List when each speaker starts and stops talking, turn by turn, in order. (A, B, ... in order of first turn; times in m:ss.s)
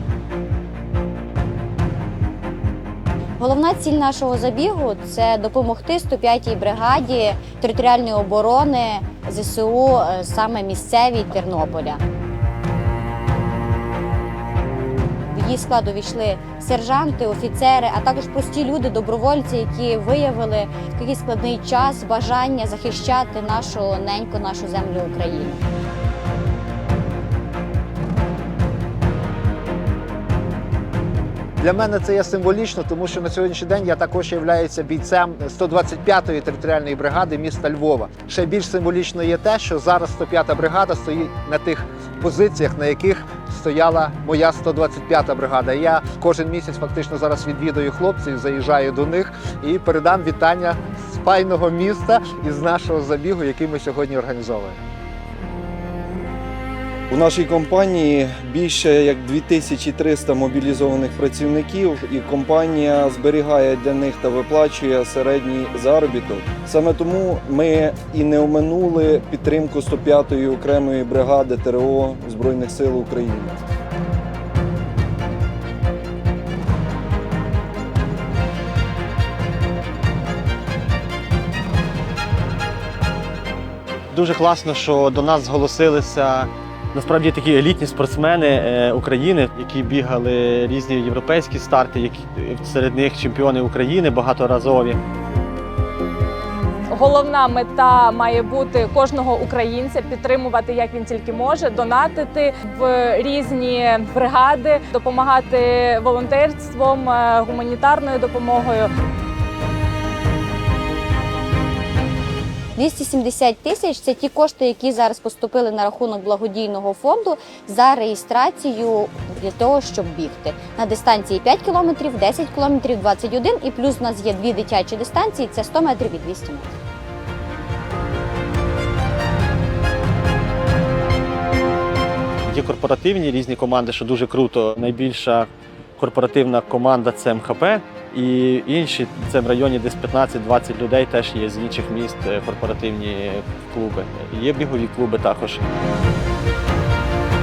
0:03.4-0:12.0 A
0:15.3-0:25.6 A
0:31.6-0:54.8 B
0:57.1-1:13.6 C
1:24.1-1:35.0 D
1:36.9-1:48.9 E
1:52.8-2:06.7 A
2:12.5-2:25.6 D